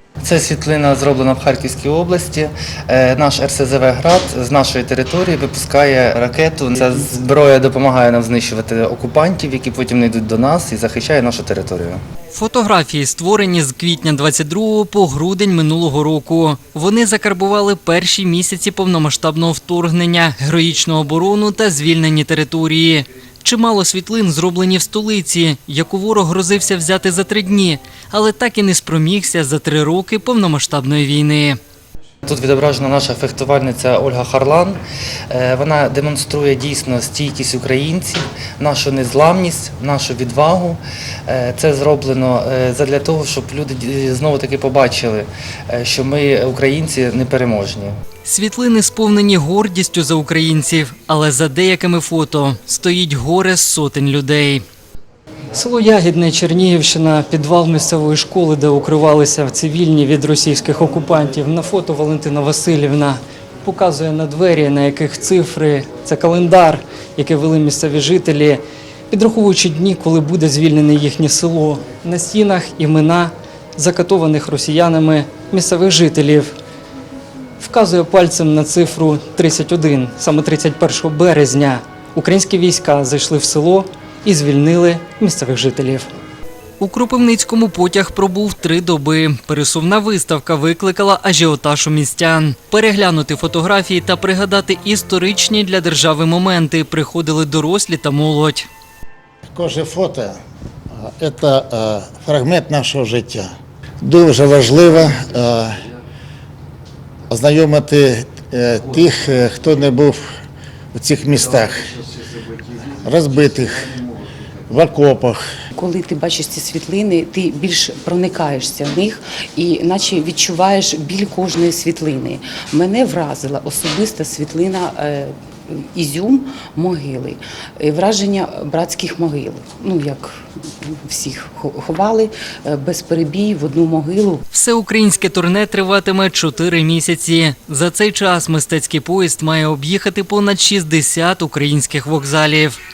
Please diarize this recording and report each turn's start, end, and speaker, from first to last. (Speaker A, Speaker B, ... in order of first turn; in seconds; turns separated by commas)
Speaker A: 0.2-12.0, Speaker B: 12.3-31.6, Speaker A: 32.2-34.8, Speaker A: 35.3-47.9, Speaker B: 48.2-54.6, Speaker B: 55.5-76.5, Speaker B: 77.6-86.1, Speaker B: 86.8-98.7, Speaker C: 99.5-100.4, Speaker C: 101.0-103.5, Speaker C: 104.0-105.8, Speaker C: 107.3-110.3, Speaker C: 110.9-112.0, Speaker C: 112.8-114.0, Speaker C: 114.7-115.5, Speaker D: 115.7-134.4, Speaker B: 134.5-142.8